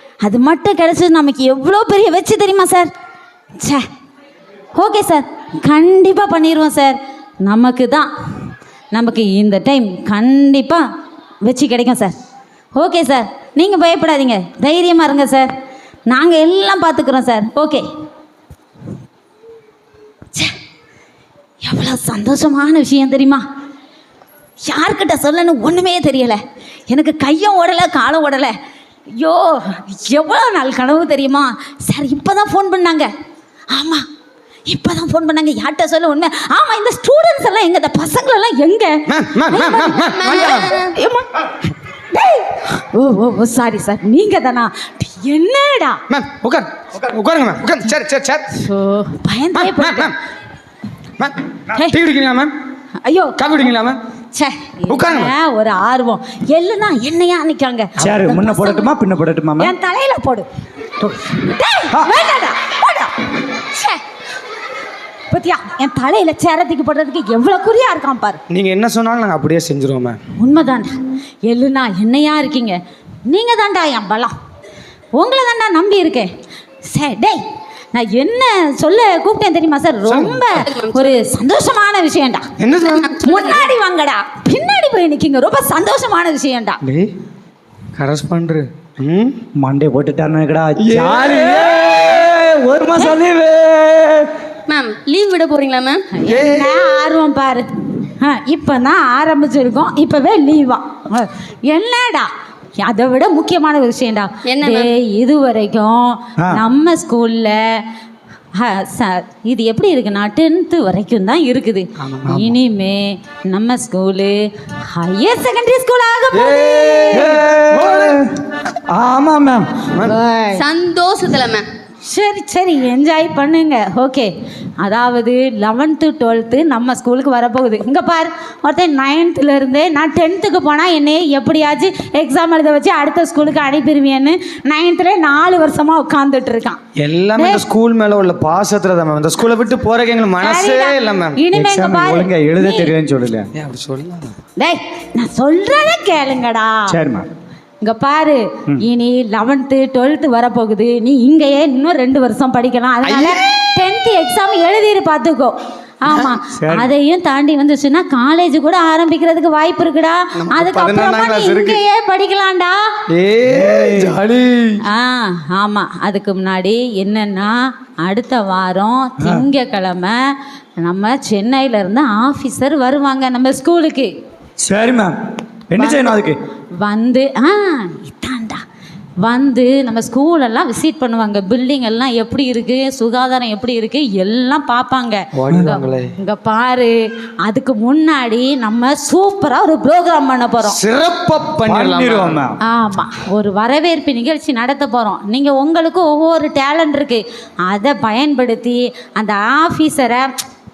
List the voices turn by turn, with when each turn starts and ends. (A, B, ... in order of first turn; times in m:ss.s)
0:00.2-0:02.9 A
0:03.6-0:03.8 A
0:04.7-0:10.8 A
0:11.4-0:12.1 A
0:12.7-0:15.5 A
0:16.1-0:17.8 A
0:21.6-0:23.4 A
0:24.6-0:28.5 A
0:29.1-0:33.1 A
0:33.7-0:34.0 A
0:34.7-0:40.1 A
0:39.1-0:40.8 B
0:40.1-0:40.9 C
0:40.7-0:41.4 A
0:42.1-0:46.0 A
0:46.1-0:48.5 B
0:48.5-0:50.1 A
0:49.5-0:50.1 B
0:51.9-0:52.5 B
0:53.0-0:53.4 A
0:53.4-0:54.0 B
0:54.3-0:58.9 A
0:54.9-0:55.3 B
0:58.0-0:59.7 D
0:59.6-1:00.5 A
1:01.3-1:04.0 A
1:05.3-1:08.4 A
1:08.5-1:10.2 B
1:10.4-1:10.9 A
1:11.4-1:14.3 A
1:15.1-1:16.3 A
1:16.8-1:17.4 A
1:17.9-1:22.5 A
1:20.0-1:20.4 B
1:20.5-1:21.1 C
1:22.6-1:23.2 B
1:23.0-1:23.5 C
1:23.2-1:26.8 A
1:26.8-1:27.1 B
1:28.0-1:29.4 B
1:29.6-1:34.3 D
1:30.8-1:31.9 B
1:34.7-1:36.0 C
1:36.1-1:47.8 A
1:36.2-1:36.7 B
1:44.5-1:44.9 C
1:48.5-1:57.4 A
1:52.0-1:52.4 B
1:52.3-1:52.5 D
1:56.4-1:58.2 D
1:57.1-1:58.2 B
1:59.0-1:59.6 D
1:59.0-2:00.1 B
2:00.0-2:00.6 A
2:00.5-2:01.7 C
2:02.0-2:16.8 A
2:17.0-2:21.4 B
2:17.4-2:17.6 A
2:20.4-2:22.9 A
2:21.5-2:23.5 D
2:23.6-2:24.3 B
2:24.6-2:27.0 A
2:26.9-2:27.3 D
2:27.8-2:42.9 A
2:33.0-2:33.3 B
2:36.5-2:36.9 D
2:40.4-2:41.8 B
2:43.1-2:44.8 B
2:43.4-2:44.2 D
2:44.9-2:54.1 A
2:54.6-2:55.2 D
2:55.7-2:56.4 D
2:55.8-2:56.1 A
2:56.8-2:58.6 A
2:59.2-3:10.8 A
3:05.3-3:06.1 B
3:10.6-3:12.4 B
3:11.6-3:12.6 D
3:12.6-3:20.3 A